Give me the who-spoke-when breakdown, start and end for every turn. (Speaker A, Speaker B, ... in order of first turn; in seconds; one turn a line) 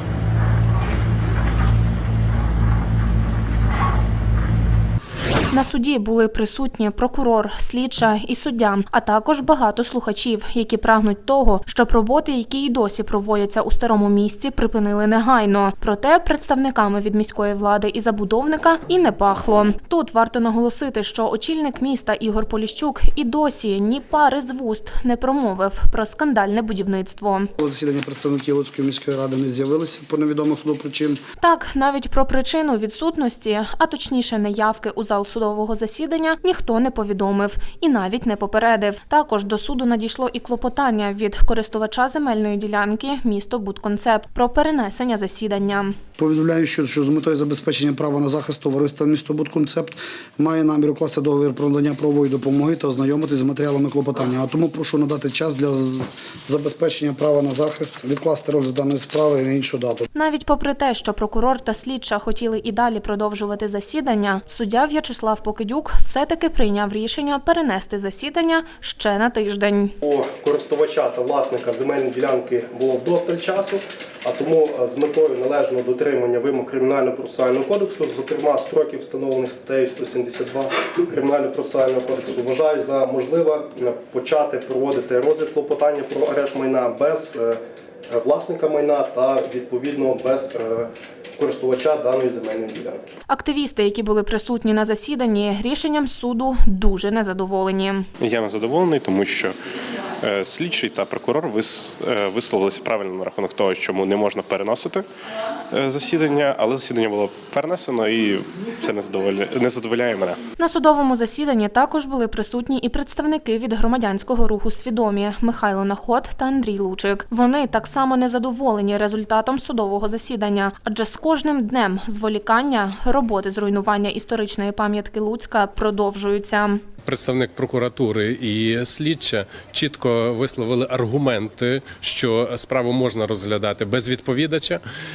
Speaker A: 5.5-27.5
Speaker B: 27.6-31.2
Speaker A: 31.4-46.0
Speaker B: 46.2-60.1
Speaker A: 60.1-70.0
Speaker C: 70.0-93.0
Speaker A: 93.3-98.1
Speaker D: 98.2-99.6
Speaker D: 100.2-105.1
Speaker D: 105.7-110.4
Speaker A: 110.6-126.8
Speaker E: 127.0-134.8